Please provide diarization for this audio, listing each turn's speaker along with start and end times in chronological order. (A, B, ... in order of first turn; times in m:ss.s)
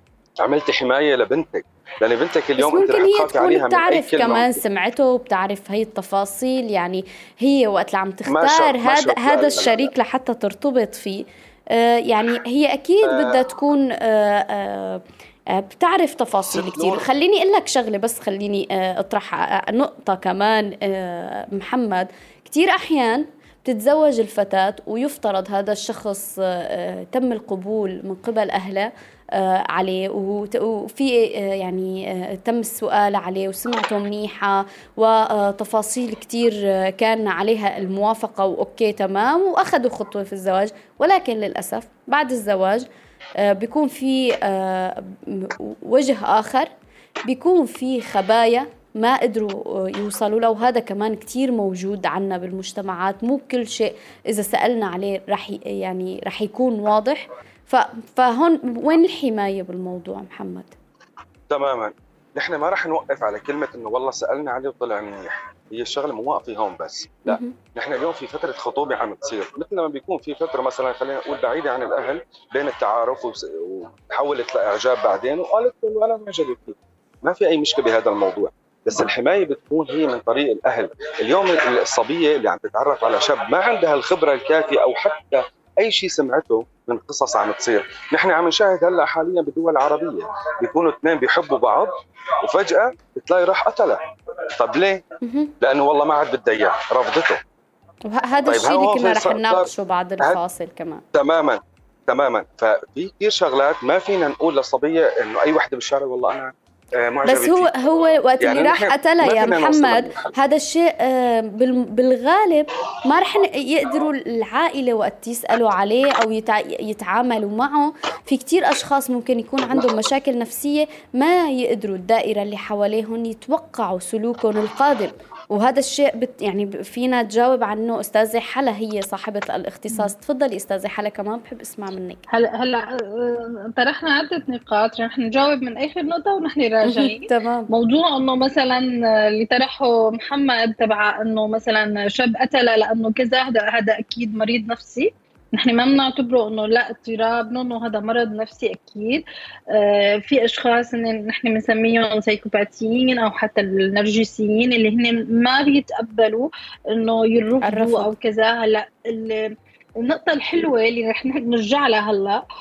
0:00.4-0:04.6 A
0:02.6-0:15.0 B
0:08.3-0:09.9 A
0:13.0-0:13.3 A
0:15.5-0:42.8 B
0:16.5-0:17.0 A
0:43.4-0:46.7 B
0:47.2-1:00.8 B
1:01.5-1:34.0 A
1:07.3-1:07.6 B
1:34.6-1:35.0 A
1:35.2-1:35.5 B
1:35.6-1:37.4 A
1:38.1-1:41.0 B
1:38.5-1:39.7 A
1:41.2-1:50.4 A
1:47.3-2:12.2 B
2:12.3-2:42.4 C
2:16.8-2:17.7 B
2:37.6-2:38.1 B